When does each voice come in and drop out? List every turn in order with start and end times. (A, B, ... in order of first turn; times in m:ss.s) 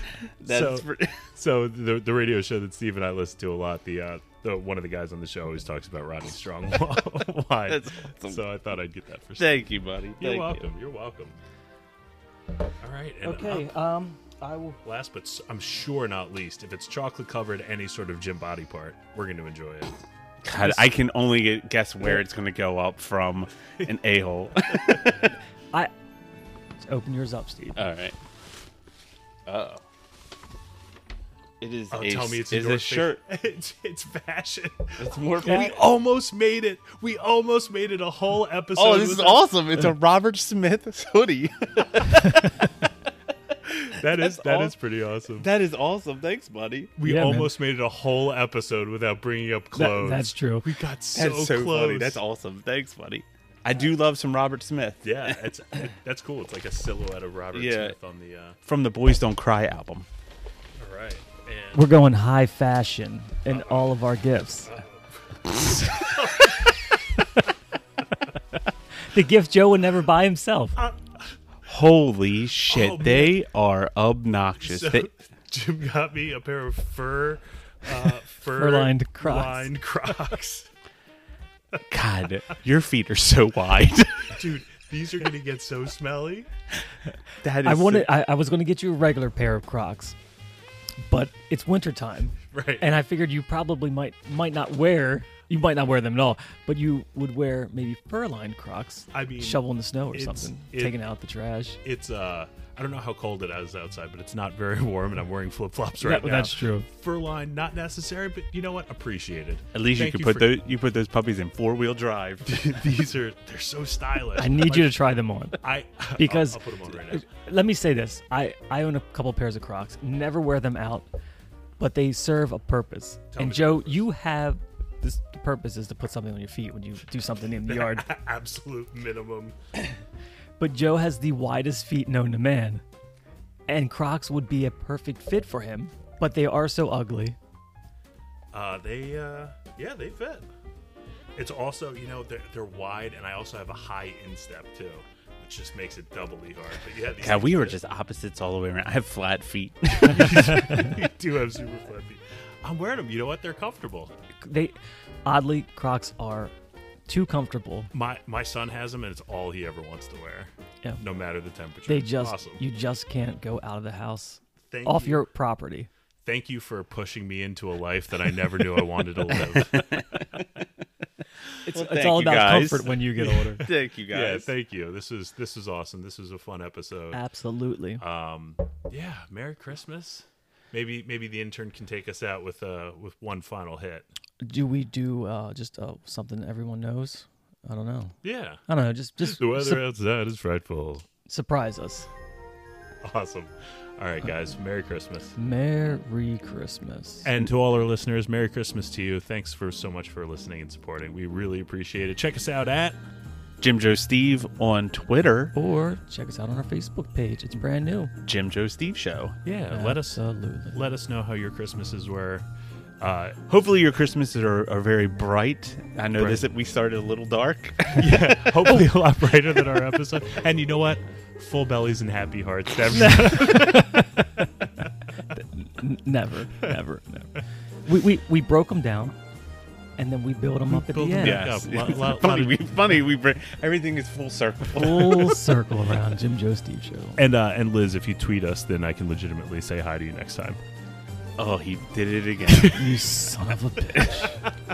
0:00.4-0:01.2 A
0:00.4-0:11.4 B
0:07.7-0:08.4 A
0:09.4-0:10.7 A
0:12.8-0:13.7 B
0:13.2-0:14.8 C
0:14.8-0:19.9 B
0:20.4-0:25.4 A
0:24.8-0:25.2 B
0:26.8-0:27.8 C
0:27.8-0:28.2 A
0:29.4-0:29.8 A
0:31.6-0:33.2 A
0:31.9-0:39.6 B
0:35.0-0:35.8 A
0:38.7-0:42.6 A
0:43.8-0:45.5 B
0:44.0-0:44.7 A
0:45.4-0:46.9 A
0:47.0-0:52.2 B
0:47.0-0:47.5 C
0:49.7-0:50.6 C
0:51.1-0:55.3 A
0:55.0-0:58.6 B
0:57.5-0:57.9 A
0:58.6-1:00.0 A
1:00.8-1:01.8 B
1:01.7-1:04.7 C
1:03.5-1:04.0 B
1:04.6-1:07.2 B
1:09.0-1:10.8 C
1:10.8-1:11.4 B
1:11.6-1:15.1 A
1:12.7-1:13.4 B
1:14.6-1:20.7 B
1:18.6-1:19.7 C
1:21.9-1:24.4 A
1:24.2-1:26.5 B
1:27.4-1:28.1 A
1:27.6-1:30.2 C
1:31.0-1:41.8 C
1:32.5-1:32.9 B
1:39.1-1:41.0 B
1:41.8-1:50.5 B
1:46.0-1:46.8 C
1:49.7-1:52.7 A
1:52.4-1:55.0 B
1:54.4-1:55.6 C
1:55.6-1:57.2 B
1:56.2-2:01.1 C
2:01.8-2:08.0 C
2:03.3-2:04.1 B
2:07.6-2:09.6 B
2:10.6-2:12.8 C
2:13.7-2:17.4 C
2:18.5-2:20.5 B
2:21.4-2:27.8 B
2:27.2-2:30.7 A
2:30.0-2:34.1 B
2:34.4-2:34.7 C
2:35.2-2:36.5 C
2:37.1-2:37.9 C
2:37.9-2:42.6 B
2:41.9-2:45.9 C
2:44.7-2:45.2 B
2:46.2-2:50.0 B
2:49.4-2:50.5 A
2:51.6-2:53.6 C
2:51.7-2:53.0 A
2:53.2-2:57.2 B
2:53.5-2:54.5 A
2:57.1-2:58.0 C
2:58.0-3:04.0 B
3:04.4-3:08.2 C
3:08.2-3:08.6 B
3:08.7-3:09.8 C
3:09.2-3:11.0 B
3:11.3-3:12.1 C
3:13.0-3:15.3 B
3:15.4-3:17.3 C
3:17.2-3:23.0 B
3:23.6-3:25.5 A
3:25.5-3:28.1 C
3:28.2-3:29.4 A
3:29.4-3:30.2 B
3:29.7-3:30.8 C
3:30.7-3:32.4 B
3:33.0-3:33.4 B
3:33.5-3:38.5 A
3:36.2-3:36.5 B
3:38.0-3:44.1 B
3:43.0-3:44.5 C
3:45.3-3:49.2 C
3:50.0-3:51.5 C
3:50.7-3:52.7 B
3:51.2-3:55.4 A
3:54.7-3:57.2 C
3:57.2-4:00.6 B
4:01.4-4:02.8 A
4:02.5-4:03.0 B
4:02.7-4:04.3 C
4:04.1-4:04.5 B